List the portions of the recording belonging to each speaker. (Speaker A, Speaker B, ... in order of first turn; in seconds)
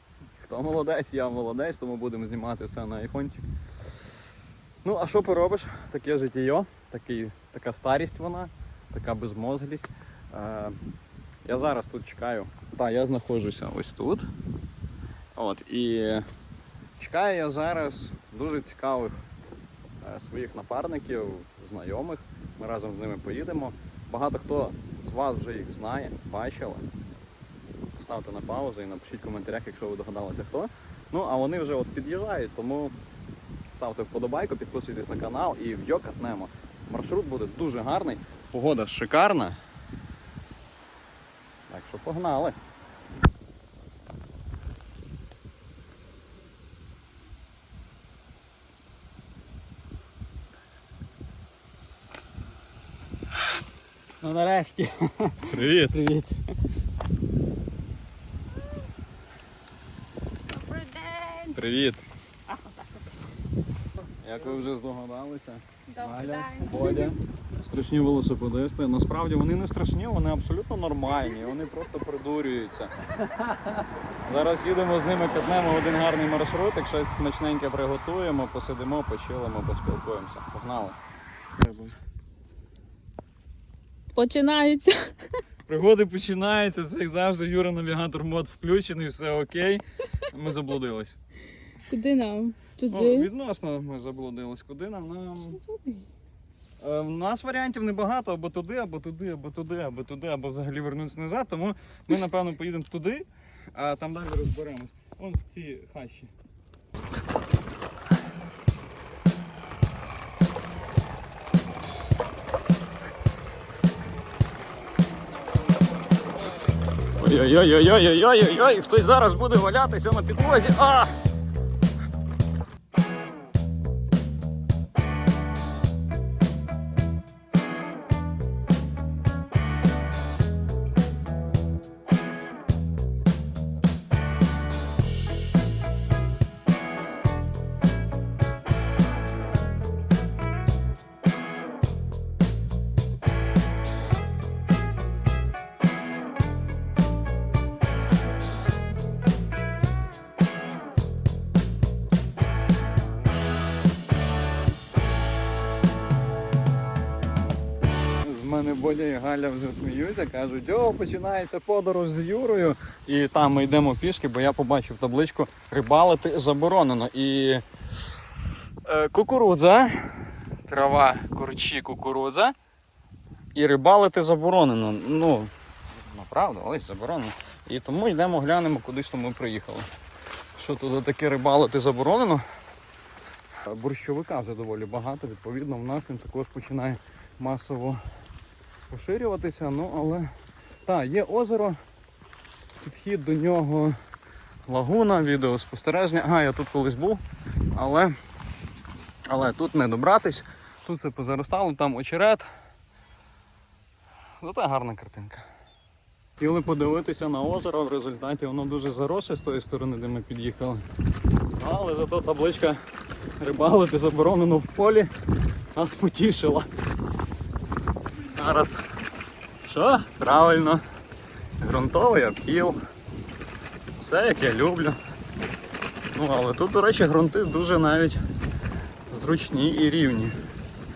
Speaker A: 0.4-3.5, 4.8-10.8, 11.4-14.3, 15.3-16.3, 17.0-19.2, 20.0-26.9, 27.9-33.0, 33.7-39.6, 41.7-42.5, 55.5-56.2, 61.5-62.0, 64.2-72.9, 74.2-81.0, 81.6-82.0, 85.7-91.2, 92.9-95.6, 96.8-106.3, 117.2-121.1, 158.2-167.6, 168.8-172.5, 173.5-179.9, 180.5-182.4, 183.6-188.0, 188.9-190.3, 190.8-191.8, 192.8-194.0, 194.7-197.2, 197.7-198.1, 199.3-202.5, 204.4-205.4, 206.4-210.8, 211.6-212.8, 213.4-215.1, 215.7-216.7, 218.2-218.8, 219.6-220.8, 221.6-222.8, 224.0-225.0, 226.1-228.2, 229.1-230.3
Speaker B: 54.2-56.2
Speaker C: 60.5-61.6, 65.9-67.1, 84.1-85.2, 91.9-93.3, 95.5-96.1